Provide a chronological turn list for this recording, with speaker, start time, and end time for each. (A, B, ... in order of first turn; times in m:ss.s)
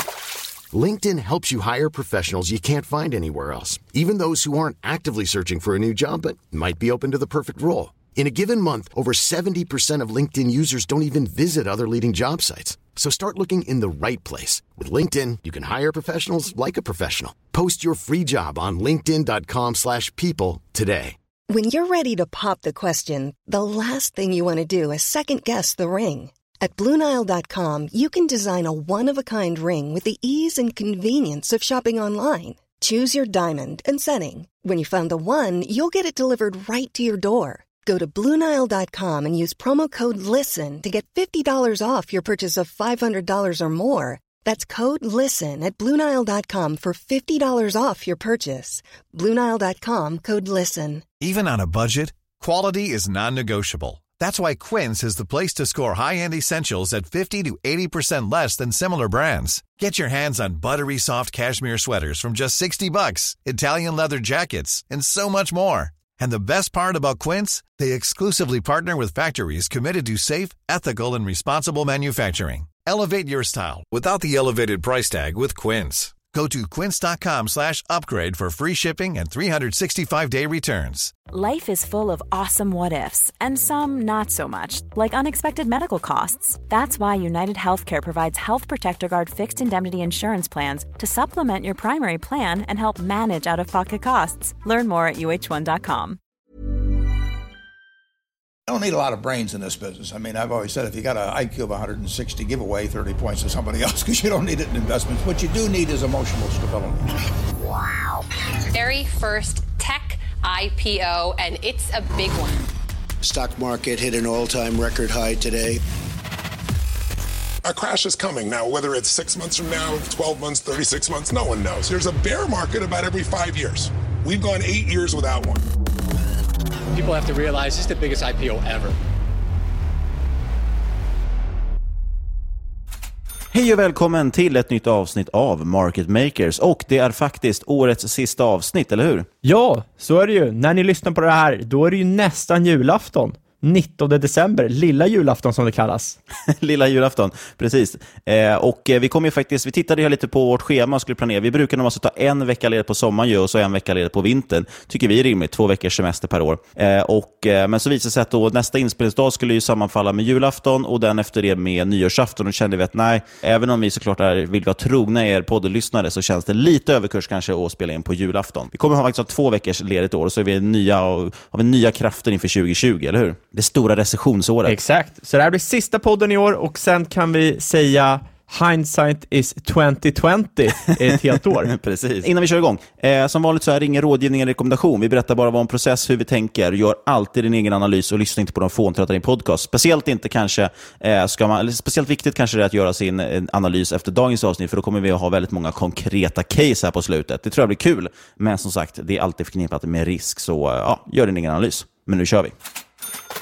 0:00.7-0:21.2 A
0:21.5-0:51.0 B
0:51.2-1:21.1 C
1:21.3-1:36.2 D
1:38.7-1:47.1 E
1:48.7-1:52.7 F
1:53.2-1:55.8 G
1:57.6-2:05.6 H
2:06.9-2:09.0 I
2:13.5-2:19.3 J
2:19.4-2:26.2 K
2:26.5-2:54.8 J
2:54.6-3:01.7 K
3:01.6-3:22.5 J